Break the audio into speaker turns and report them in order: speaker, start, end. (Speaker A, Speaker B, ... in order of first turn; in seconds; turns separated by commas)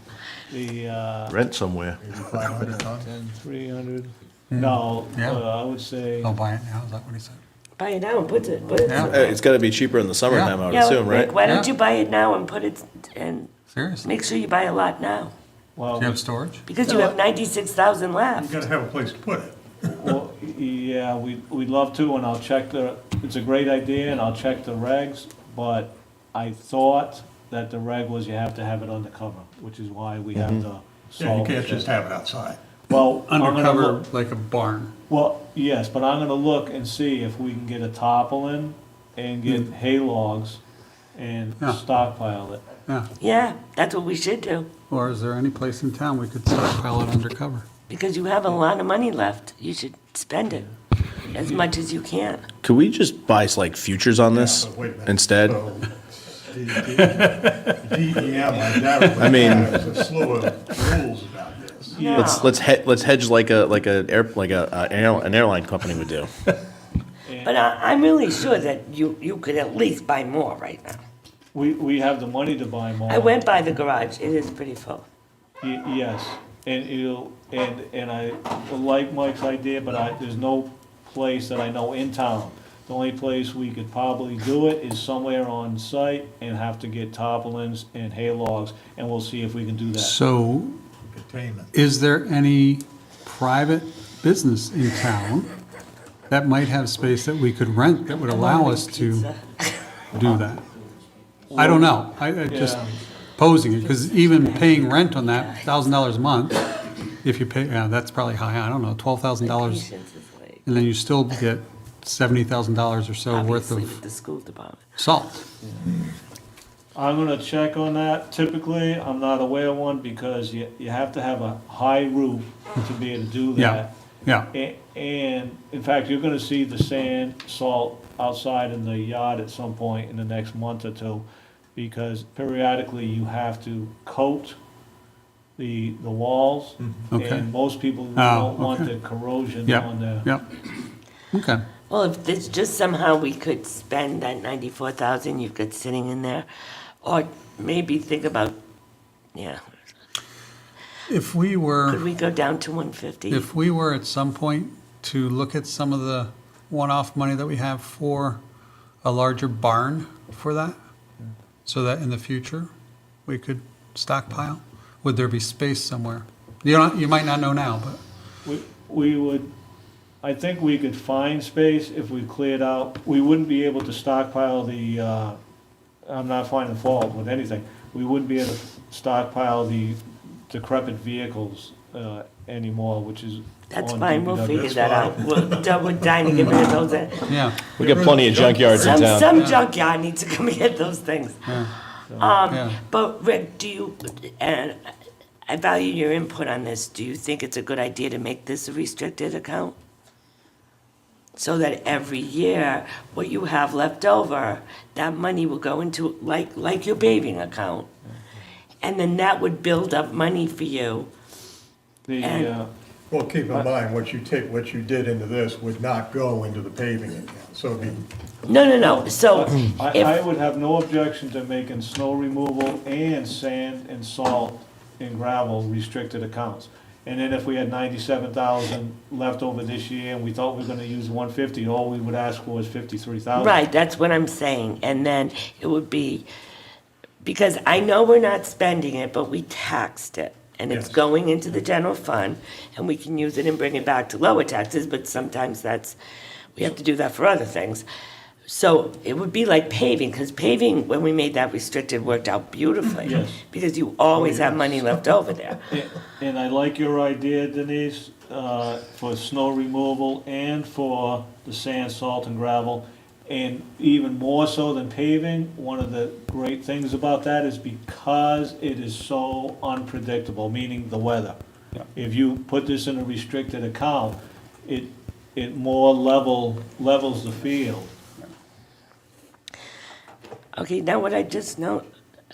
Speaker A: 0.5-1.4, Speaker B: 1.3-2.0, Speaker C: 2.0-3.1, Speaker A: 3.2-6.3, Speaker D: 4.5-5.4, Speaker D: 6.2-7.4, Speaker E: 7.8-9.4, Speaker D: 8.9-9.3, Speaker B: 9.0-11.4, Speaker D: 10.3-10.6, Speaker E: 10.7-15.3, Speaker D: 11.4-11.7, Speaker D: 13.7-14.1, Speaker A: 15.8-16.2, Speaker D: 16.0-16.6, Speaker E: 16.7-18.6, Speaker C: 18.4-20.2, Speaker A: 20.0-31.9, Speaker B: 30.4-30.6, Speaker C: 31.2-32.6, Speaker A: 32.9-34.0, Speaker D: 33.3-34.9, Speaker A: 35.1-40.6, Speaker A: 41.1-42.6, Speaker E: 43.2-44.7, Speaker D: 44.9-47.7, Speaker E: 47.9-50.7, Speaker E: 51.3-52.5, Speaker B: 52.6-55.6, Speaker C: 54.3-62.0, Speaker B: 59.2-59.7, Speaker E: 61.9-62.6, Speaker A: 62.0-62.2, Speaker B: 62.1-66.3, Speaker E: 67.4-71.0, Speaker A: 71.5-73.4, Speaker E: 73.1-75.0, Speaker A: 75.6-90.2, Speaker D: 90.0-90.8, Speaker C: 91.1-91.7, Speaker D: 91.7-95.5, Speaker D: 96.3-99.3, Speaker E: 98.2-100.0, Speaker D: 100.1-100.7, Speaker A: 101.5-102.9, Speaker D: 101.6-109.9, Speaker E: 103.8-105.7, Speaker E: 109.4-110.8, Speaker D: 110.7-114.0, Speaker E: 113.3-114.8, Speaker D: 115.0-115.5, Speaker A: 115.6-116.0, Speaker A: 117.0-123.9, Speaker D: 123.6-124.5, Speaker A: 124.5-134.6, Speaker A: 135.6-140.3, Speaker D: 137.1-137.5, Speaker D: 138.2-138.9, Speaker D: 139.7-140.4, Speaker D: 141.3-141.7, Speaker E: 141.9-146.5, Speaker E: 147.0-148.5, Speaker E: 149.3-149.6, Speaker D: 151.1-152.0, Speaker E: 151.8-153.5, Speaker D: 153.3-158.4, Speaker D: 159.0-160.8, Speaker D: 161.7-162.7, Speaker D: 163.3-168.0, Speaker A: 168.4-169.5, Speaker A: 170.2-175.4, Speaker A: 176.1-185.1, Speaker E: 183.7-187.4, Speaker C: 184.6-186.8, Speaker D: 187.3-187.7, Speaker B: 187.8-189.4, Speaker C: 187.8-189.2, Speaker E: 188.7-191.7, Speaker D: 191.5-191.7, Speaker A: 192.1-192.4, Speaker E: 192.2-194.9, Speaker D: 192.5-192.8, Speaker E: 195.5-199.8, Speaker E: 201.4-207.9, Speaker E: 208.8-211.1, Speaker A: 212.1-212.7, Speaker E: 212.2-212.5, Speaker C: 213.1-218.1, Speaker E: 218.4-220.2, Speaker A: 218.8-233.6, Speaker E: 233.3-236.3, Speaker E: 237.2-246.0, Speaker C: 240.7-240.9, Speaker E: 246.6-247.8, Speaker E: 248.5-255.7, Speaker A: 253.0-253.4, Speaker A: 254.1-255.0, Speaker A: 255.7-271.4, Speaker A: 271.9-277.9, Speaker E: 280.6-281.9